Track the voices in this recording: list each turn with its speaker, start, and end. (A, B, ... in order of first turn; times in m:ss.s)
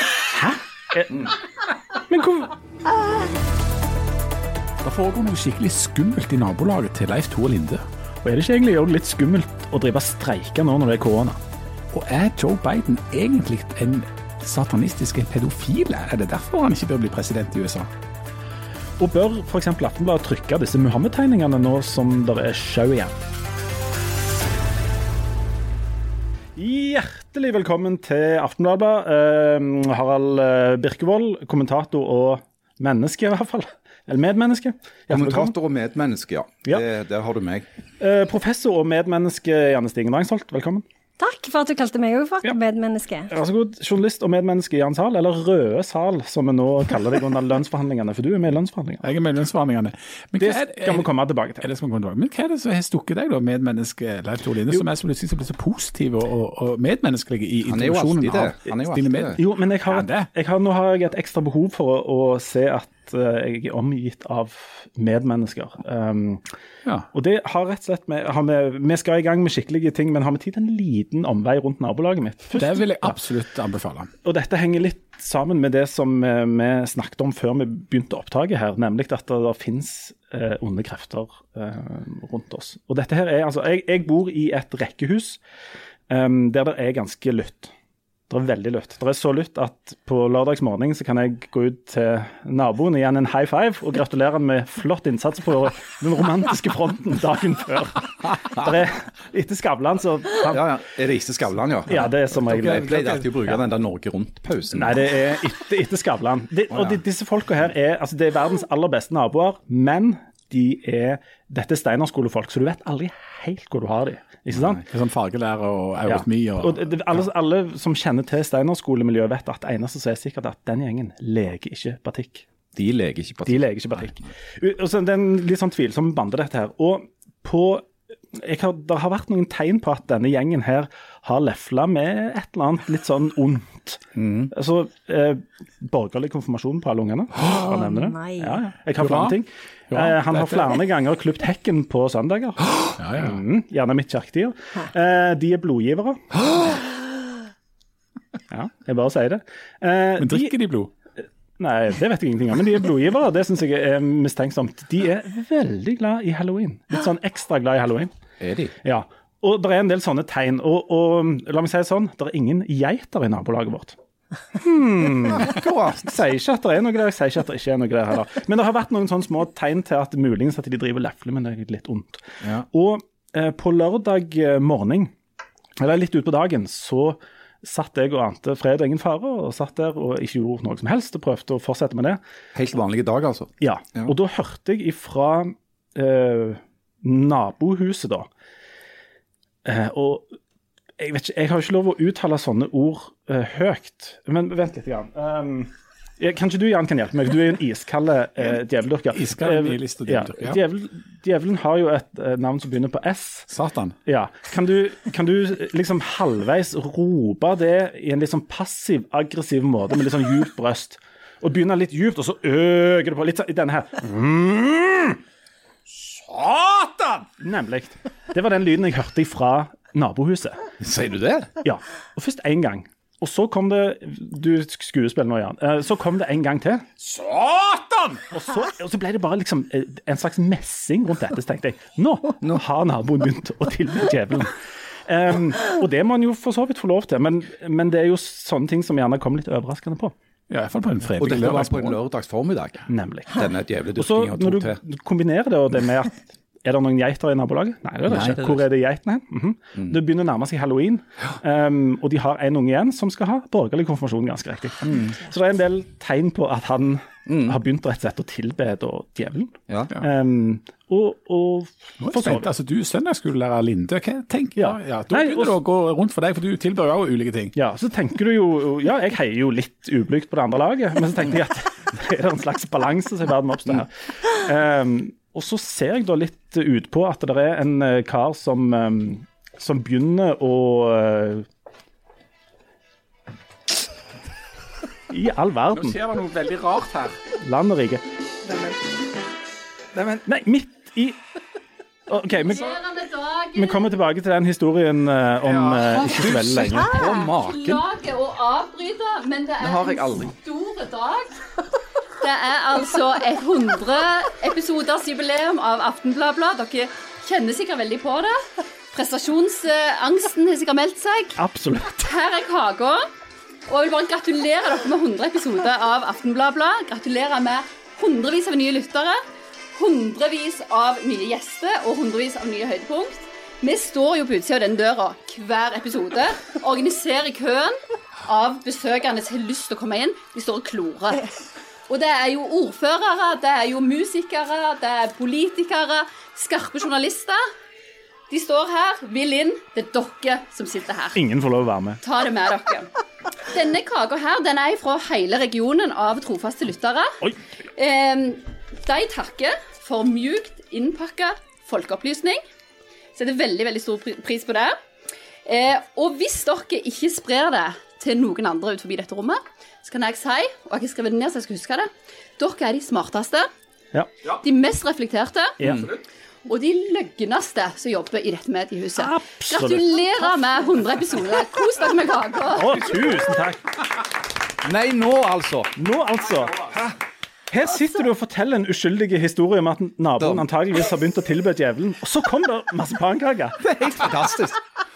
0:00.2-0:01.1 A
0:01.1-0:01.4 B
0:02.1-0:02.5 A
0:04.8-0:07.8 C
0:08.2-0:11.4 A
0:11.9-0:17.9 C
0:19.0-0:23.2 A
0:26.6-0:35.5 A
0:35.1-0:37.6 B
0:38.0-0:40.8 A
0:41.2-0:43.3 D
0:43.3-0:49.1 A
0:49.0-1:00.3 C
0:50.4-0:51.6 A
0:57.7-0:59.4 B
0:59.4-1:06.4 A
1:07.1-1:13.1 A
1:12.5-1:14.1 C
1:14.2-1:25.4 A
1:26.1-1:27.7 A
1:28.3-1:40.6 A
1:40.4-1:45.0 B
1:41.9-1:42.9 A
1:42.3-1:43.6 C
1:44.7-1:54.8 A
1:46.7-1:47.0 B
1:54.8-1:57.2 C
1:56.0-2:02.4 A
2:02.7-2:04.0 B
2:03.4-2:26.4 A
2:14.2-2:14.5 B
2:17.4-2:18.6 D
2:19.0-2:19.4 C
2:19.9-2:20.8 C
2:23.0-2:23.4 C
2:28.5-2:30.5 A
2:30.2-2:30.9 C
2:31.6-2:38.1 A
2:38.4-2:38.8 B
2:38.8-2:44.0 A
2:44.5-2:55.1 A
2:45.4-2:46.1 B
2:55.8-3:02.2 A
3:02.5-3:04.1 B
3:03.6-3:08.3 A
3:09.6-3:10.4 A
3:11.0-3:23.5 A
3:19.1-3:20.6 C
3:23.5-3:24.0 C
3:24.0-3:35.2 A
3:35.9-3:37.3 C
3:37.4-3:40.6 A
3:40.8-3:41.5 B
3:41.6-3:46.9 A
3:47.0-3:48.2 C
3:48.3-4:00.1 A
4:00.5-4:02.0 C
4:01.2-4:04.8 B
4:02.9-4:22.5 A
4:08.1-4:08.6 B
4:14.9-4:15.1 B
4:17.2-4:17.6 B
4:19.7-4:19.9 B
4:22.0-4:27.5 C
4:24.6-4:25.5 A
4:27.5-4:41.4 A
4:45.1-4:46.0 A
4:45.7-4:47.2 C
4:47.4-4:48.0 A
4:50.0-4:51.2 A
4:52.1-4:52.8 A
4:52.4-4:53.9 E
4:53.5-4:56.9 A
4:55.4-4:56.0 C
4:55.9-4:57.8 B
4:56.8-5:01.4 E
4:59.6-5:00.3 B
5:02.2-5:11.4 E
5:11.4-5:12.1 A
5:11.9-5:13.0 E
5:13.7-5:19.2 E
5:19.8-5:31.4 E
5:31.9-5:37.4 E
5:38.3-5:41.2 E
5:41.1-5:42.0 A
5:42.0-5:42.9 E
5:43.4-5:47.2 E
5:47.8-5:52.4 E
5:53.1-5:54.8 E
5:55.4-6:03.5 E
6:04.3-6:05.6 E
6:05.6-6:05.9 A
6:05.6-6:06.0 B
6:06.4-6:13.2 E
6:09.0-6:09.8 A
6:12.5-6:13.8 A
6:14.6-6:15.8 B
6:15.8-6:16.9 A
6:17.5-6:23.6 A
6:20.2-6:20.5 B
6:23.6-6:24.6 B